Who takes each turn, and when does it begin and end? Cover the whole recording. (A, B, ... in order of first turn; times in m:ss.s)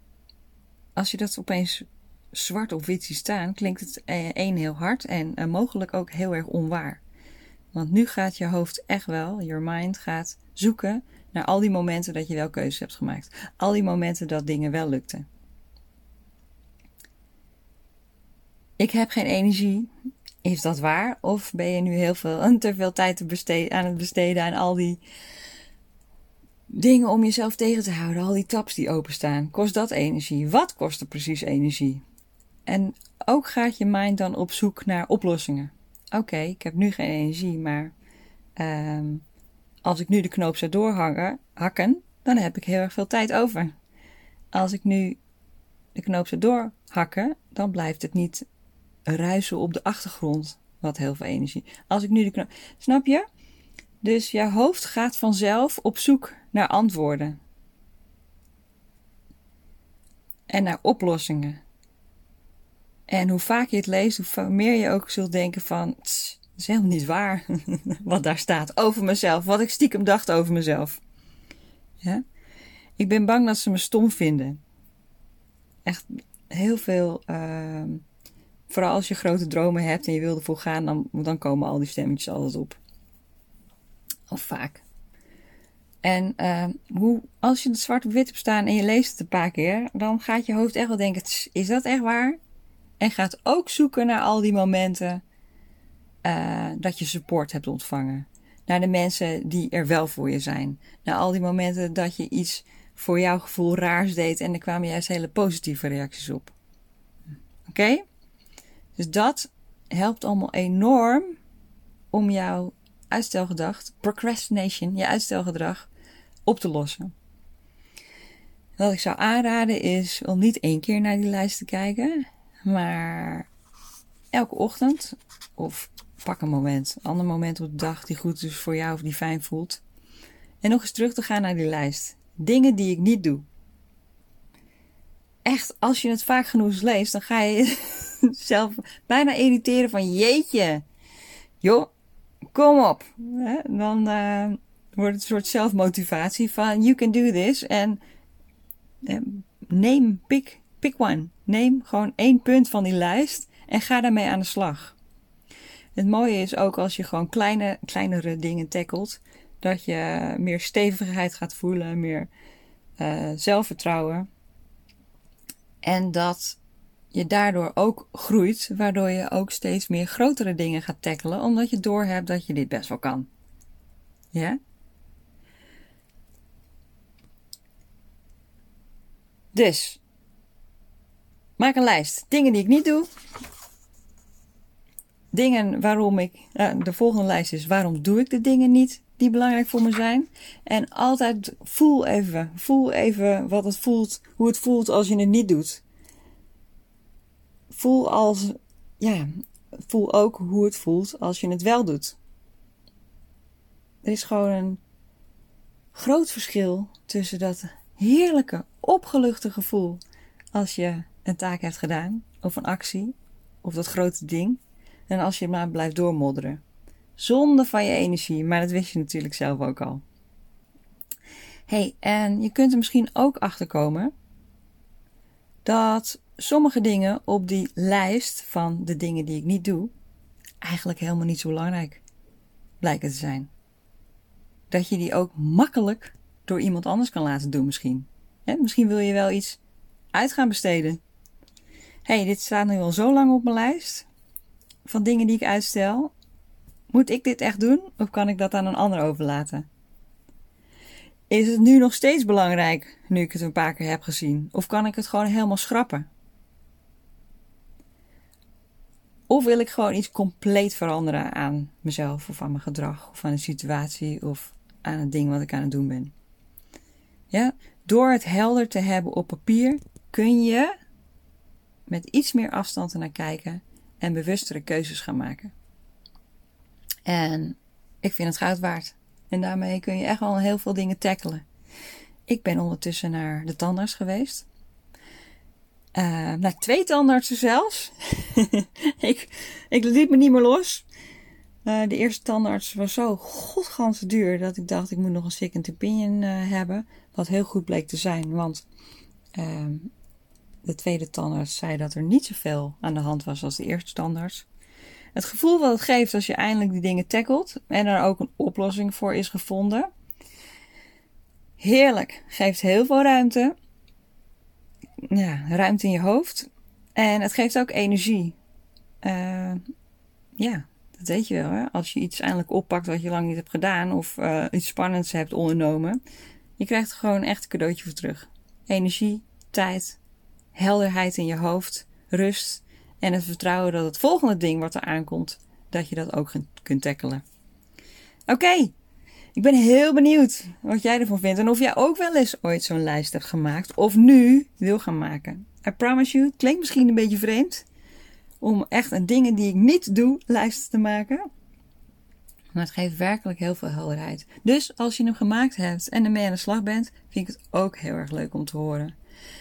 0:01.0-0:07.0 A
0:07.7-0:15.3 A
0:18.8-0:19.9 A
0:20.4-0:25.0 A
0:26.7-0:32.0 A
0:32.7-0:37.9 A
0:38.6-0:39.2 A
0:39.8-0:43.7 A
0:44.5-0:45.2 A
0:46.0-0:48.5 A
0:49.1-0:53.3 A
0:54.0-0:57.4 A
1:00.5-1:01.6 A
1:03.1-1:11.0 A
1:13.0-1:14.6 A
1:15.8-1:18.0 A
1:18.7-1:22.8 A
1:24.3-1:24.8 A
1:26.0-1:32.4 A
1:33.0-1:35.2 A
1:36.2-1:46.5 A
1:47.7-1:48.0 A
1:49.0-1:51.4 A
1:52.1-1:55.9 A
1:56.5-1:57.1 A
1:58.8-2:03.5 A
2:04.3-2:09.8 A
2:10.6-2:13.5 A
2:15.4-2:20.8 A
2:21.6-2:21.9 A
2:22.5-2:28.0 A
2:29.0-2:35.0 A
2:36.0-2:42.3 A
2:43.0-2:44.3 A
2:45.8-2:46.6 A
2:47.1-2:53.3 A
2:54.3-2:54.6 A
2:59.5-3:00.0 A
3:01.6-3:03.1 A
3:05.3-3:15.8 A
3:17.7-3:22.2 A
3:24.0-3:24.8 A
3:25.9-3:30.0 A
3:30.5-3:36.6 A
3:37.2-3:40.0 A
3:41.7-3:44.1 A
3:45.6-3:49.9 A
3:50.6-3:52.0 A
3:52.8-3:53.5 A
3:54.7-3:59.6 A
4:00.1-4:01.0 A
4:02.0-4:04.1 A
4:04.8-4:06.1 A
4:06.9-4:09.7 A
4:11.3-4:16.1 A
4:19.3-4:26.1 A
4:27.3-4:30.8 A
4:31.9-4:35.5 A
4:37.1-4:41.4 A
4:42.3-4:44.5 A
4:46.0-4:50.9 A
4:51.6-4:58.7 A
4:59.4-4:59.9 A
5:00.6-5:04.5 A
5:05.2-5:09.9 A
5:11.6-5:13.6 A
5:15.0-5:18.4 A
5:19.0-5:19.6 A
5:20.4-5:26.0 A
5:26.6-5:30.0 A
5:30.6-5:37.2 A
5:38.3-5:38.7 A
5:39.4-5:47.6 A
5:48.4-5:51.2 A
5:52.5-5:59.0 A